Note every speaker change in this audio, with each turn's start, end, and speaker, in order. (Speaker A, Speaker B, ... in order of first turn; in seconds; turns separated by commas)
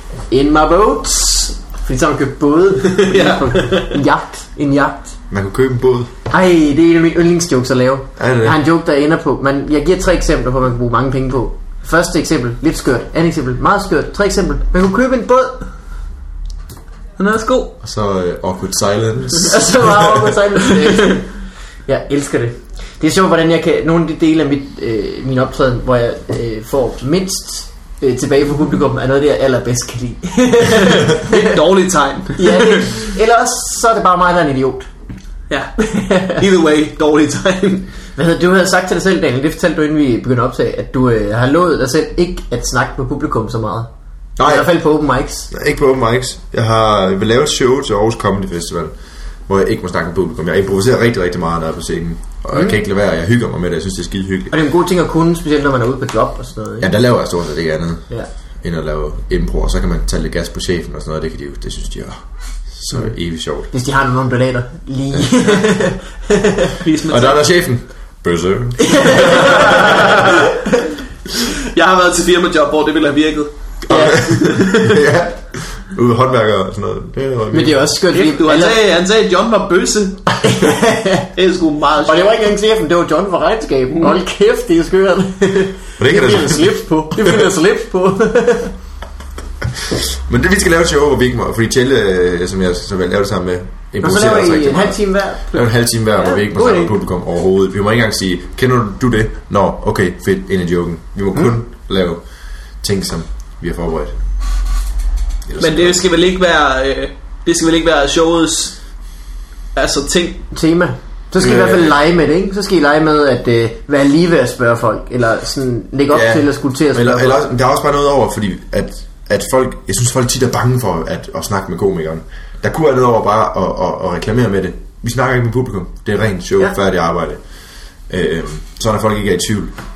Speaker A: 0.3-5.2, Speaker B: 2.9-4.0, Speaker C: 5.3-6.1, Speaker A: 6.3-15.7, Speaker C: 8.2-8.6, Speaker B: 17.2-17.7, Speaker C: 17.8-20.3, Speaker A: 19.4-21.3, Speaker A: 21.9-31.6, Speaker B: 30.8-33.0, Speaker A: 32.3-34.9, Speaker A: 35.8-36.4, Speaker B: 36.3-37.9, Speaker A: 38.2-43.9, Speaker C: 44.4-44.7, Speaker A: 44.4-45.5, Speaker C: 45.5-48.9, Speaker C: 49.5-54.5, Speaker A: 54.5-56.9, Speaker C: 56.8-58.0, Speaker C: 58.6-62.2, Speaker C: 62.7-63.7, Speaker A: 63.7-66.8, Speaker B: 66.8-67.5, Speaker C: 67.1-70.3, Speaker A: 68.8-70.7, Speaker B: 69.3-70.5, Speaker B: 71.5-75.0, Speaker C: 73.8-77.9, Speaker A: 73.9-74.2, Speaker A: 77.5-78.8, Speaker B: 78.1-80.4, Speaker A: 80.4-81.3, Speaker B: 81.3-82.3, Speaker A: 82.0-88.7, Speaker C: 86.0-87.4, Speaker C: 89.8-102.2, Speaker A: 94.0-96.9, Speaker C: 102.8-104.2, Speaker C: 105.5-106.0, Speaker B: 105.6-108.8, Speaker B: 109.7-110.5, Speaker A: 110.5-117.4, Speaker C: 111.4-112.0, Speaker C: 116.1-127.4, Speaker C: 128.1-129.7